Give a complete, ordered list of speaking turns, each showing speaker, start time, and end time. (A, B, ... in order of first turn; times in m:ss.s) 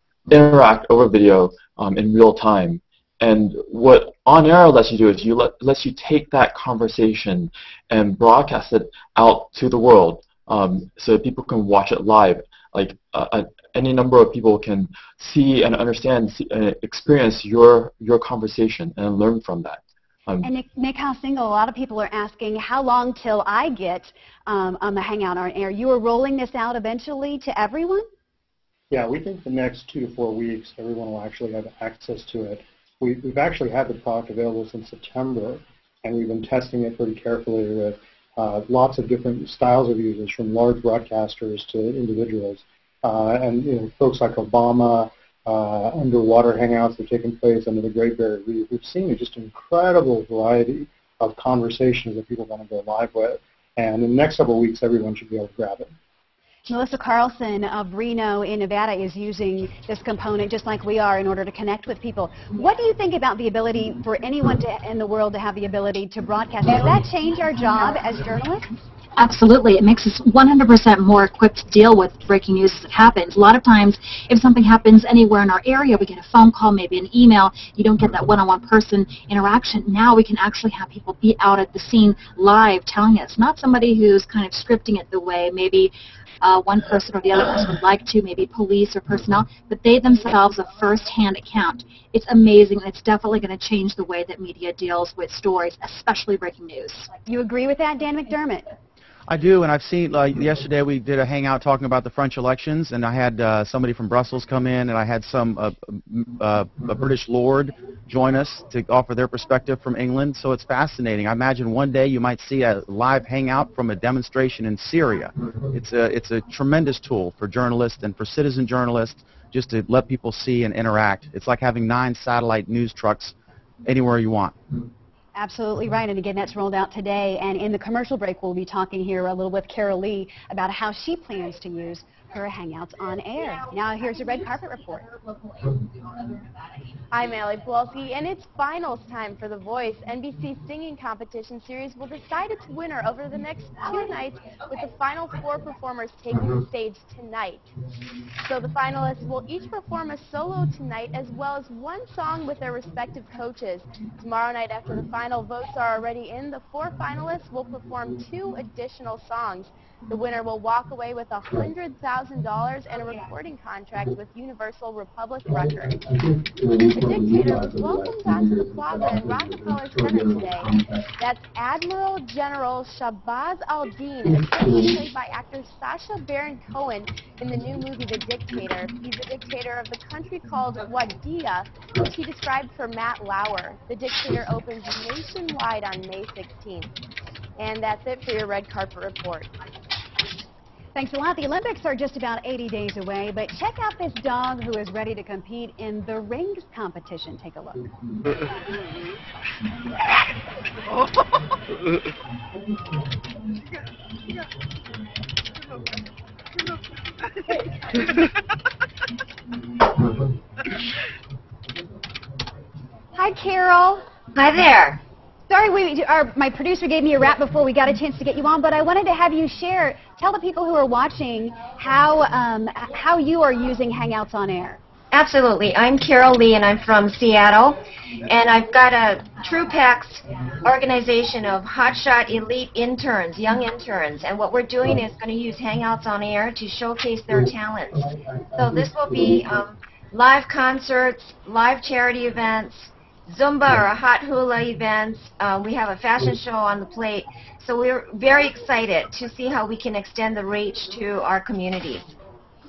0:00.3-0:20.5 A
0:20.4-0:28.1 B
0:28.9-0:55.9 C
0:56.7-1:08.7 B
1:09.2-1:37.1 D
1:37.2-1:38.7 B
1:39.3-2:04.5 E
2:05.4-2:15.1 B
2:17.1-2:27.7 F
2:28.4-3:06.9 F
3:07.6-3:09.5 F
3:11.0-3:17.9 B
3:33.2-3:34.0 B
3:34.4-3:35.0 G
3:35.5-3:44.8 B
3:45.1-4:12.2 G